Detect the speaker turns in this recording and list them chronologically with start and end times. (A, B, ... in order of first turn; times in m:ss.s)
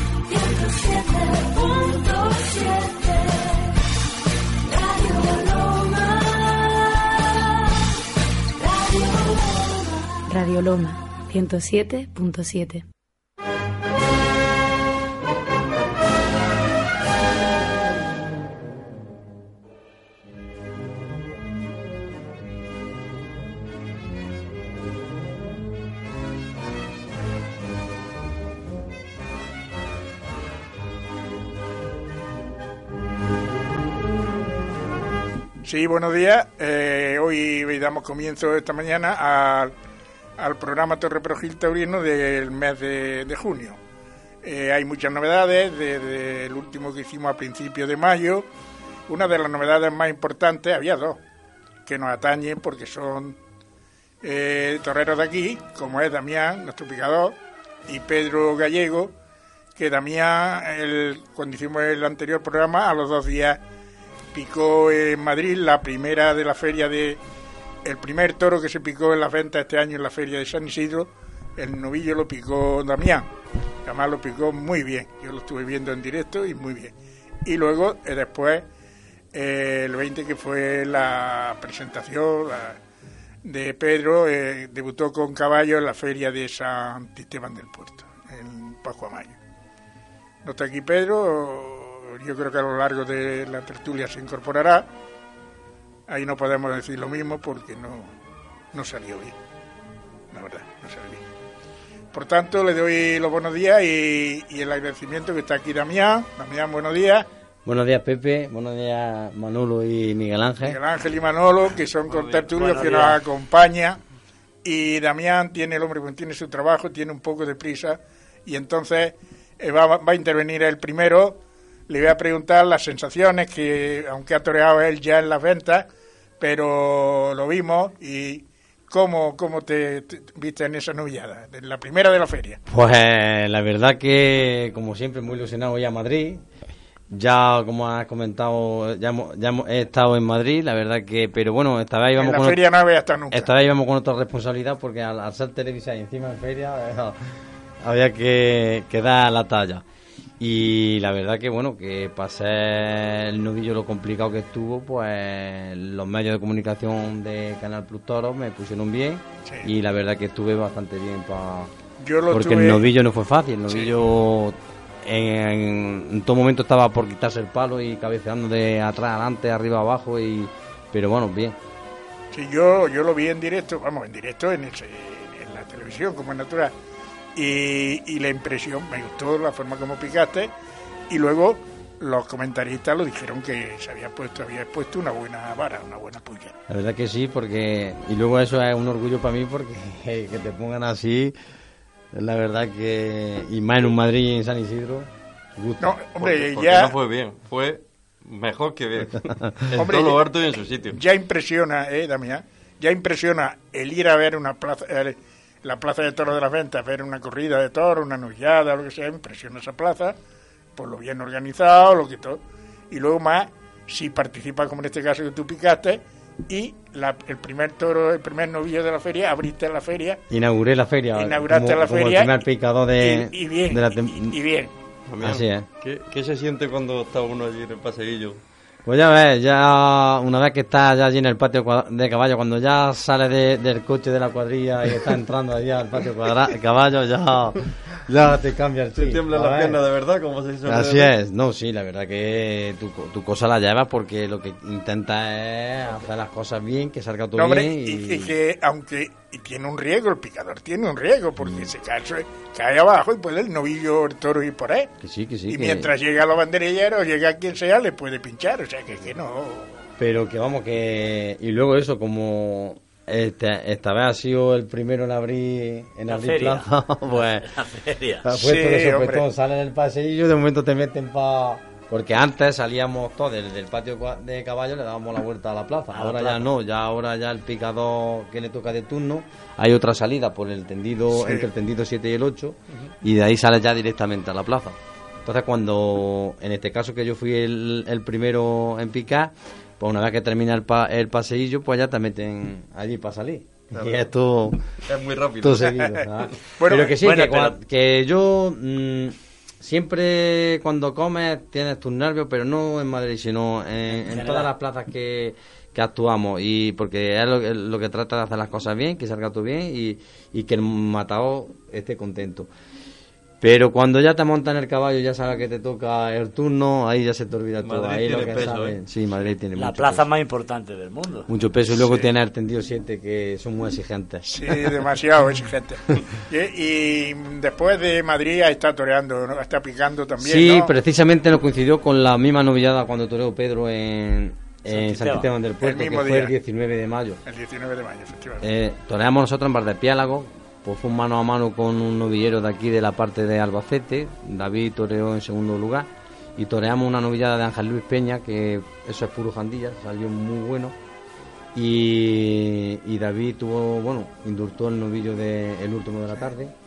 0:00.3-0:03.9 A
0:04.5-0:07.8 A
0:08.4-0:12.8 A
0:35.6-0:39.7 B
0:40.4-0:43.8 B
0:44.4-0:48.5 B
0:49.1-0:51.2 B
0:51.9-0:53.4 B
0:54.2-0:59.2 B
0:59.8-1:03.6 B
1:04.3-1:07.2 B
1:07.8-1:13.3 B
1:13.8-1:18.7 B
1:19.3-1:22.8 B
1:23.4-1:29.4 B
1:30.4-1:34.9 B
1:36.1-1:38.1 B
1:38.7-1:39.4 B
1:40.3-1:41.2 B
1:42.1-1:47.3 B
1:47.6-1:50.8 C
1:50.6-1:54.0 B
1:52.1-1:52.4 D
1:52.5-1:53.2 E
1:54.6-2:05.9 B
2:06.4-2:12.6 B
2:12.7-2:16.4 C
2:17.1-2:22.6 C
2:22.2-2:23.5 B
2:23.3-2:29.8 C
2:30.4-2:41.7 C
2:39.5-2:39.7 B
2:42.0-2:42.9 B
2:42.3-2:51.6 C
2:52.3-2:56.7 B
2:57.4-3:00.5 B
3:01.1-3:06.6 B
3:06.7-3:11.3 C
3:12.1-3:16.0 C
3:15.8-3:16.9 B
3:16.2-3:21.0 D
3:19.2-3:19.7 C
3:19.8-3:20.2 B
3:20.9-3:30.2 B
3:30.8-3:40.2 B
3:40.3-3:44.4 C
3:41.2-3:42.4 B
3:43.0-3:44.7 B
3:45.1-3:48.4 D
3:45.2-3:45.7 C
3:48.8-3:59.8 C
3:59.0-4:01.1 D
4:00.7-4:08.4 C
4:07.4-4:14.9 B
4:11.4-4:11.7 C
4:15.0-4:15.9 C
4:15.5-4:19.9 B
4:20.0-4:27.5 C
4:26.1-4:28.3 E
4:28.2-4:54.6 C
4:28.3-4:29.2 B
4:35.9-4:36.5 E
4:41.1-4:41.5 B
4:53.7-4:54.1 D
4:54.8-4:56.1 D
4:55.4-5:12.5 C
4:56.6-4:57.0 B
4:56.9-4:57.6 E
5:03.9-5:04.5 E
5:13.4-5:20.0 C
5:17.6-5:18.8 D
5:19.6-5:21.3 E
5:21.3-5:24.5 C
5:21.7-5:22.1 B
5:24.3-5:30.7 B
5:30.2-5:37.2 C
5:34.7-5:35.3 E
5:35.6-5:36.4 B
5:37.2-5:38.5 B
5:38.4-5:50.8 C
5:51.5-5:56.5 C